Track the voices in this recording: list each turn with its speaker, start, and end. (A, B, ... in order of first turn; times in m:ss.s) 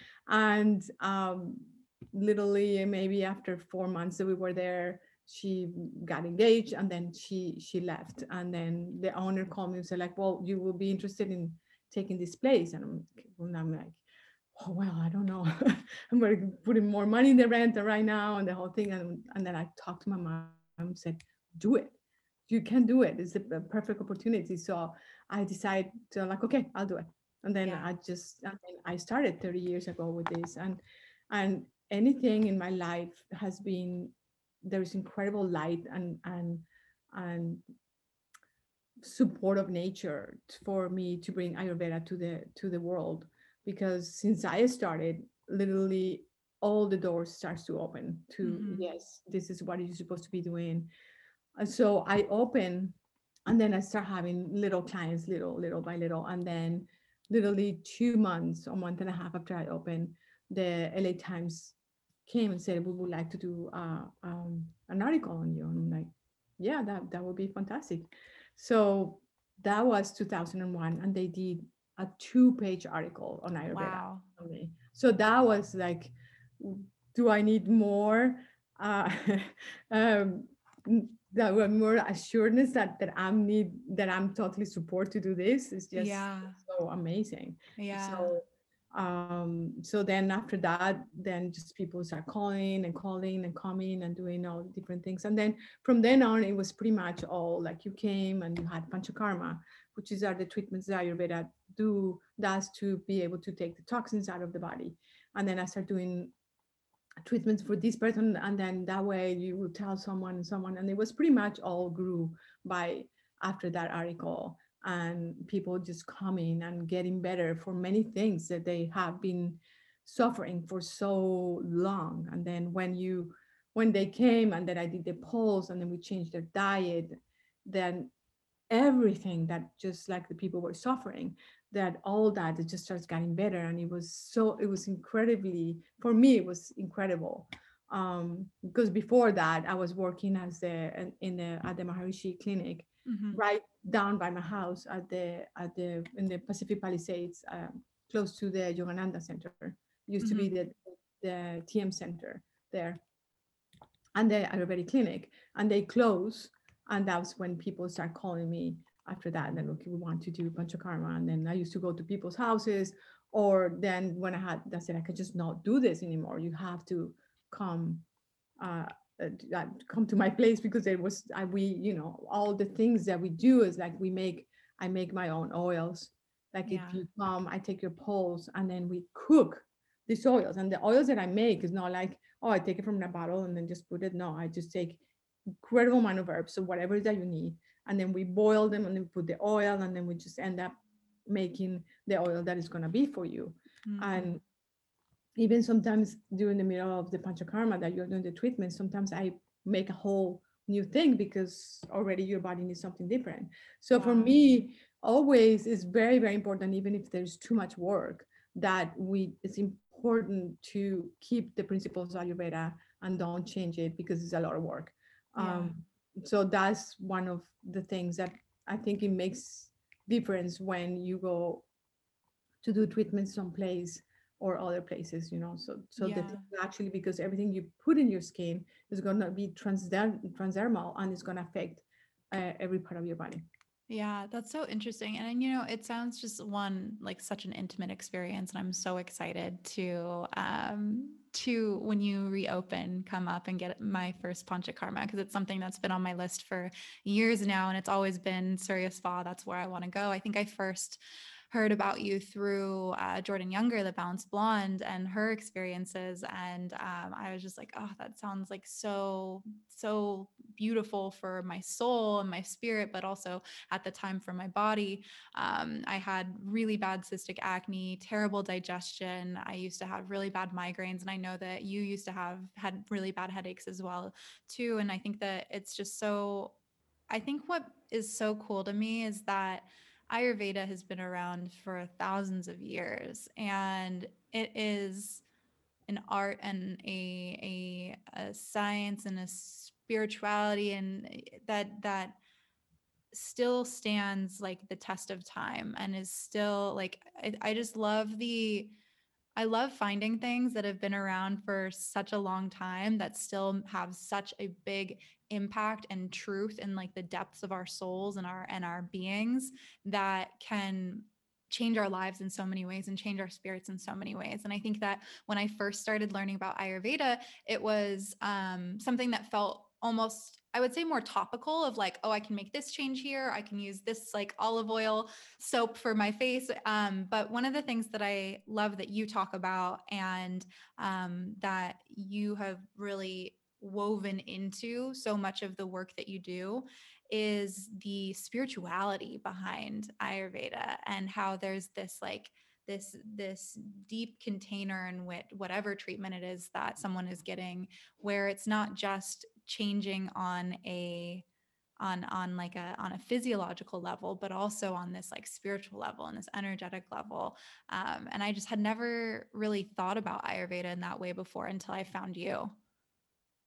0:00.3-0:14.0 A
0:14.6-0:22.0 A
0:22.5-0:30.8 A
0:27.6-0:27.9 B
0:31.3-0:37.6 A
0:39.0-0:50.9 A
0:48.4-0:48.8 B
0:51.6-0:53.0 A
0:53.5-1:01.7 A
1:02.2-1:46.3 A
1:13.7-1:14.3 B
1:26.0-1:26.6 B
1:27.8-1:28.3 B
1:47.2-2:08.1 A
2:08.7-2:33.0 A
2:23.0-2:23.4 B
2:30.2-2:30.5 B
2:34.2-2:48.0 A
2:48.6-3:05.0 A
2:56.6-2:57.0 B
3:05.6-3:10.7 A
3:11.3-3:14.4 A
3:13.9-3:14.3 B
3:15.4-3:41.6 A
3:23.9-3:24.4 B
3:35.4-3:35.8 B
3:42.6-3:53.4 A
3:46.0-3:46.4 B
3:53.9-4:36.5 B
4:37.1-4:45.2 B
4:45.9-4:52.2 B
4:53.1-4:58.7 B
4:59.4-5:51.2 B
5:51.8-6:02.5 B